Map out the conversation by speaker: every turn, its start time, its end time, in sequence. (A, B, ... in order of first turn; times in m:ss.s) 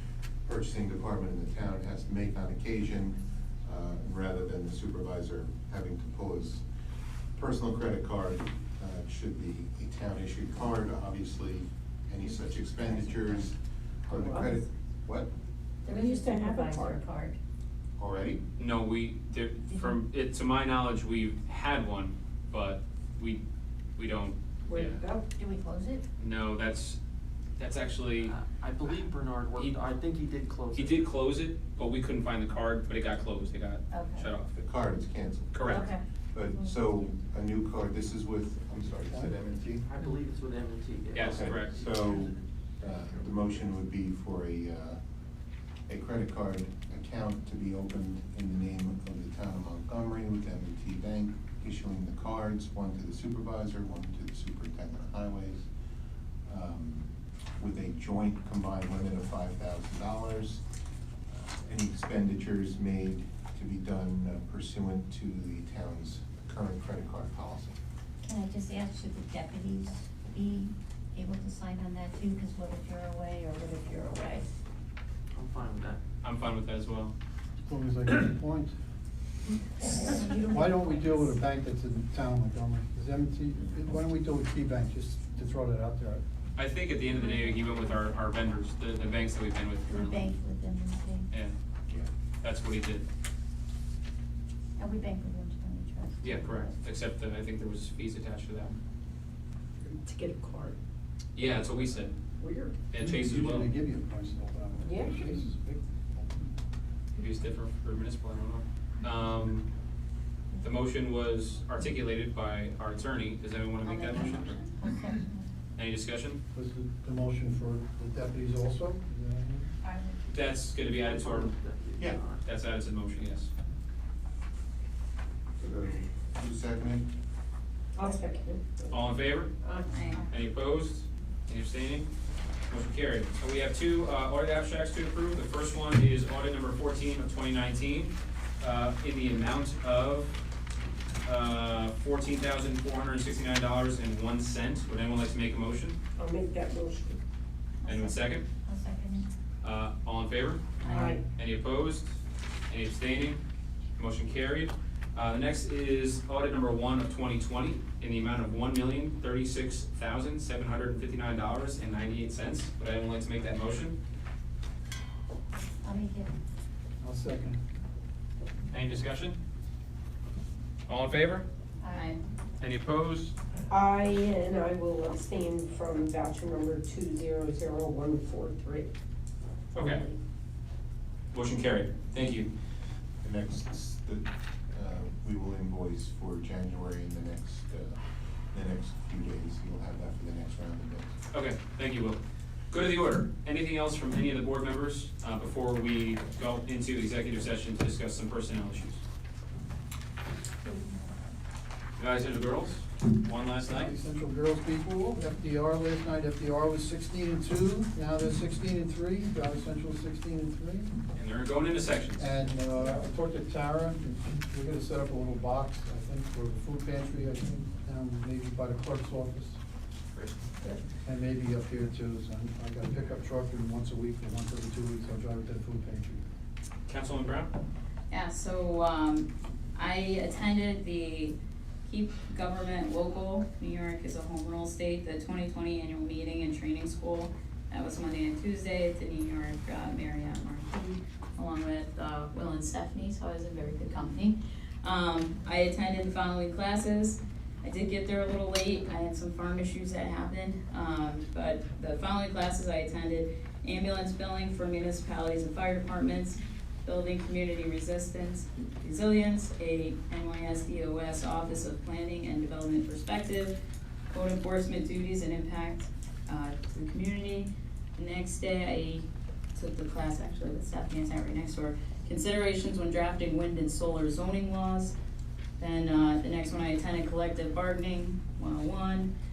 0:00.5-0:06.6 A
0:07.4-0:13.6 A
0:12.2-0:13.5 B
0:14.1-0:15.3 A
0:14.1-0:14.6 C
0:15.8-0:17.4 B
0:15.9-0:17.1 C
0:18.0-0:18.4 A
0:18.6-0:23.4 D
0:19.7-0:20.0 B
0:24.0-0:25.0 D
0:24.6-0:25.3 C
0:25.4-0:26.0 B
0:26.2-0:27.0 D
0:27.6-0:28.3 D
0:28.2-0:31.0 E
0:30.7-0:34.6 D
0:33.9-0:34.3 B
0:34.6-0:39.9 A
0:35.5-0:35.9 D
0:35.6-0:36.0 B
0:39.9-0:42.2 E
0:41.1-0:41.8 D
0:41.3-0:45.0 A
0:45.9-0:55.7 A
0:56.5-1:00.6 A
1:01.3-1:07.8 A
1:08.2-1:14.5 B
1:15.3-1:16.0 E
1:16.2-1:17.1 D
1:17.6-1:18.7 F
1:19.9-1:21.4 B
1:20.5-1:26.2 F
1:26.6-1:30.3 D
1:27.3-1:27.8 B
1:29.9-1:31.3 B
1:32.4-1:33.0 D
1:34.8-1:36.6 B
1:36.2-1:38.8 D
1:39.8-1:40.8 C
1:41.4-1:42.1 D
1:42.4-1:42.8 C
1:42.9-1:43.7 D
1:43.0-1:45.8 F
1:44.8-1:45.5 C
1:47.2-1:49.7 D
1:50.6-1:54.6 D
1:53.8-1:55.5 B
1:55.8-1:56.4 D
1:56.6-1:59.7 F
1:59.8-2:00.3 B
2:00.3-2:01.5 D
2:01.1-2:02.4 E
2:02.4-2:03.5 D
2:05.6-2:07.1 A
2:08.0-2:10.1 C
2:08.9-2:09.5 D
2:09.9-2:10.2 G
2:10.2-2:12.1 D
2:12.7-2:20.3 D
2:21.2-2:26.0 D
2:26.2-2:27.2 C
2:27.8-2:29.3 B
2:27.9-2:28.5 D
2:29.6-2:32.1 D
2:30.8-2:31.2 C
2:32.7-2:33.4 D
2:34.0-2:44.0 D
2:45.8-2:46.3 B
2:47.0-2:47.6 F
2:48.7-2:49.4 D
2:50.9-2:51.5 D
2:51.8-2:52.2 B
2:51.9-2:52.2 G
2:52.6-2:53.4 D
2:53.7-2:58.9 C
2:59.7-3:00.1 D
3:01.3-3:02.5 D
3:03.2-3:08.0 A
3:08.5-3:11.2 A
3:11.3-3:12.2 D
3:12.7-3:19.0 D
3:22.0-3:23.9 D
3:23.6-3:30.9 F
3:31.2-3:32.4 D
3:32.2-3:39.6 F
3:40.1-3:40.4 D
3:41.0-3:46.2 F
3:46.9-3:47.5 D
3:48.1-4:23.6 G
4:24.1-4:35.0 G
4:35.6-4:39.1 G